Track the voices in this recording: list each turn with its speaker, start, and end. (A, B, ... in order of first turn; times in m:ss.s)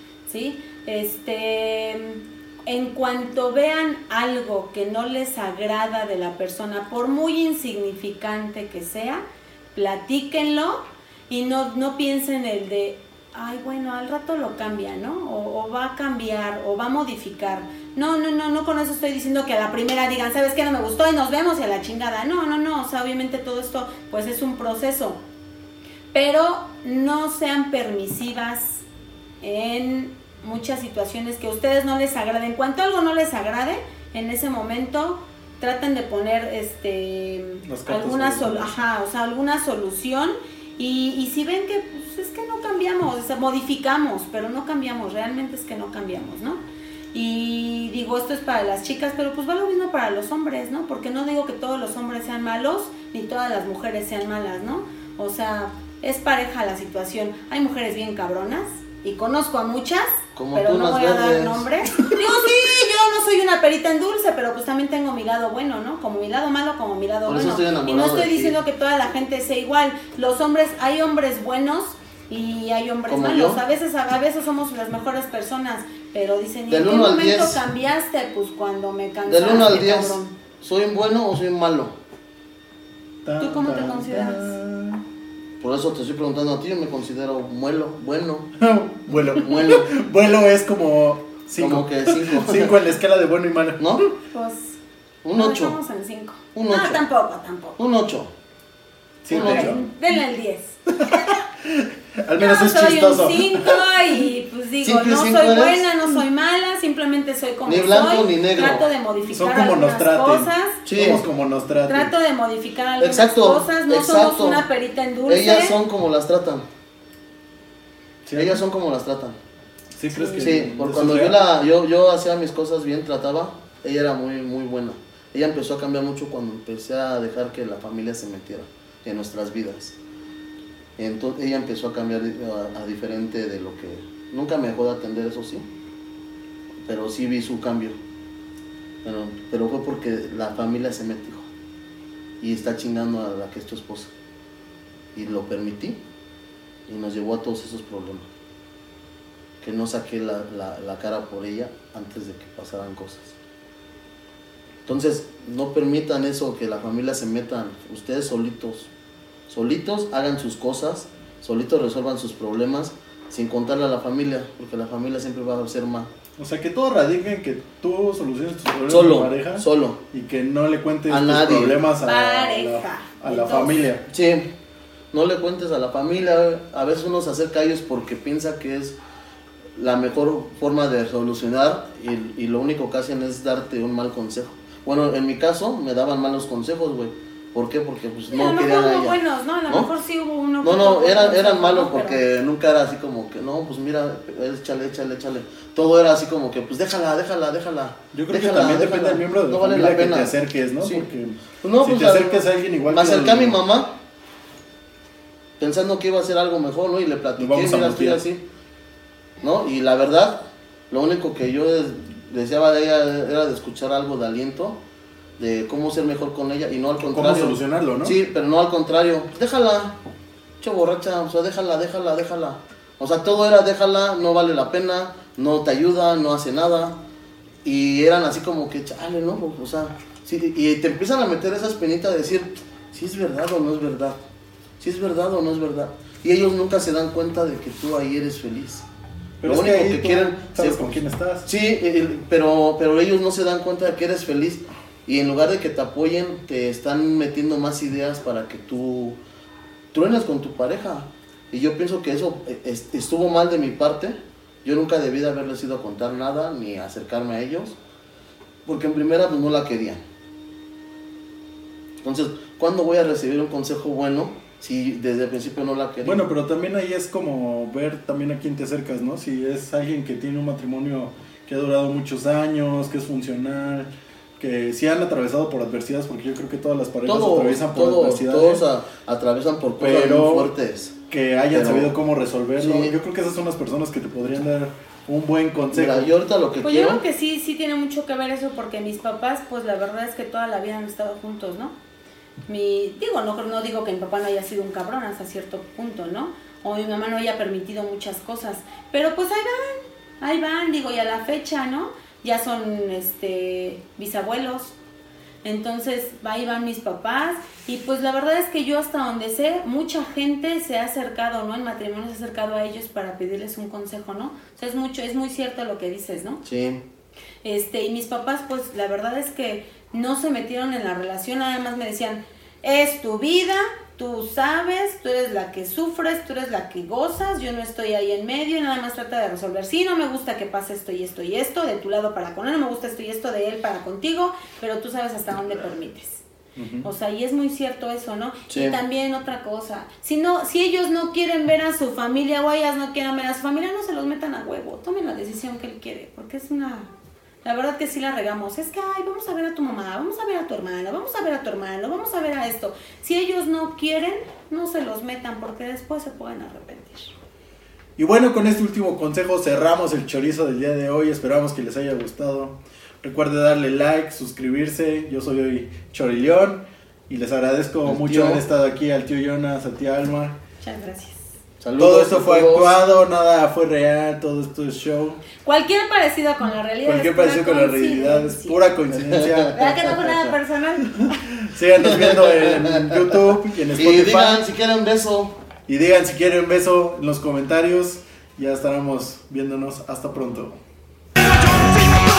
0:00.3-0:09.2 A
0:09.8-0:25.2 A
0:26.1-0:28.8 A
0:29.4-0:46.6 A
0:37.6-0:38.8 B
0:47.1-1:20.3 A
1:00.4-1:01.7 C
1:07.3-1:08.6 C
1:13.1-1:13.6 C
1:16.7-1:17.6 C
1:19.3-1:21.9 C
1:23.2-1:25.0 B
1:23.4-1:24.6 A
1:25.6-1:28.5 C
1:28.6-1:33.8 B
1:29.4-1:29.9 C
1:31.6-1:32.8 C
1:33.8-1:34.0 C
1:34.3-1:34.8 A
1:35.2-1:35.8 C
1:35.3-1:37.8 A
1:36.5-1:37.0 C
1:37.8-1:38.3 C
1:39.2-1:39.8 B
1:39.3-1:39.8 C
1:39.3-1:41.3 A
1:41.0-1:43.9 B
1:42.4-1:50.8 A
1:44.8-1:45.9 C
1:47.7-1:48.9 C
1:49.3-1:52.1 B
1:50.9-1:51.2 C
1:51.9-1:55.8 A
1:53.0-1:54.6 C
1:55.3-1:56.6 C
1:58.3-1:58.6 B
1:58.4-1:59.4 C
2:00.0-2:01.4 B
2:00.1-2:00.6 A
2:00.4-2:10.0 C
2:11.0-2:15.6 C
2:16.8-2:18.0 C
2:19.0-2:21.5 C
2:22.4-2:24.1 C
2:25.2-2:26.0 C
2:26.9-2:28.3 C
2:29.6-2:33.4 C
2:34.9-2:38.9 C
2:39.5-2:46.1 C
2:46.4-2:54.0 B
2:48.9-2:50.0 C
2:51.1-2:51.8 C
2:52.0-2:53.9 A
2:54.1-2:54.5 C
2:55.1-2:59.0 C
2:59.8-3:09.9 C
3:08.3-3:12.2 A
3:10.6-3:21.1 C
3:18.1-3:23.6 B
3:21.6-3:23.9 C
3:25.6-3:28.4 C
3:27.4-3:28.2 B
3:29.4-3:34.8 C
3:35.4-3:40.0 C
3:37.1-3:38.2 B
3:40.6-3:47.0 C
3:47.6-3:54.2 C
3:54.8-3:58.8 C
3:59.4-4:01.4 B
3:59.4-4:09.2 C
4:09.9-4:17.8 C
4:18.6-4:20.0 C
4:22.0-4:26.2 C
4:26.0-4:38.6 B
4:37.0-4:41.0 C
4:39.8-4:40.5 B
4:41.1-4:46.1 B
4:41.5-4:41.9 C
4:42.6-4:43.0 C
4:45.7-4:47.0 C
4:46.6-4:51.7 A
4:52.5-5:04.7 A
5:05.4-5:16.4 A
5:16.4-5:16.8 C
5:17.4-5:36.2 A
5:36.6-5:36.9 B
5:36.8-5:46.9 A
5:38.5-5:38.8 C
5:47.4-5:57.1 A
5:58.0-6:10.4 B
6:07.9-6:08.4 C
6:10.6-6:11.3 A
6:11.6-6:12.8 C
6:11.8-6:15.2 B
6:15.4-6:18.6 A
6:16.8-6:19.6 B
6:19.0-6:19.7 C
6:19.5-6:21.1 A
6:21.0-6:24.5 B
6:21.8-6:23.2 C
6:23.8-6:25.4 C
6:25.7-6:30.6 B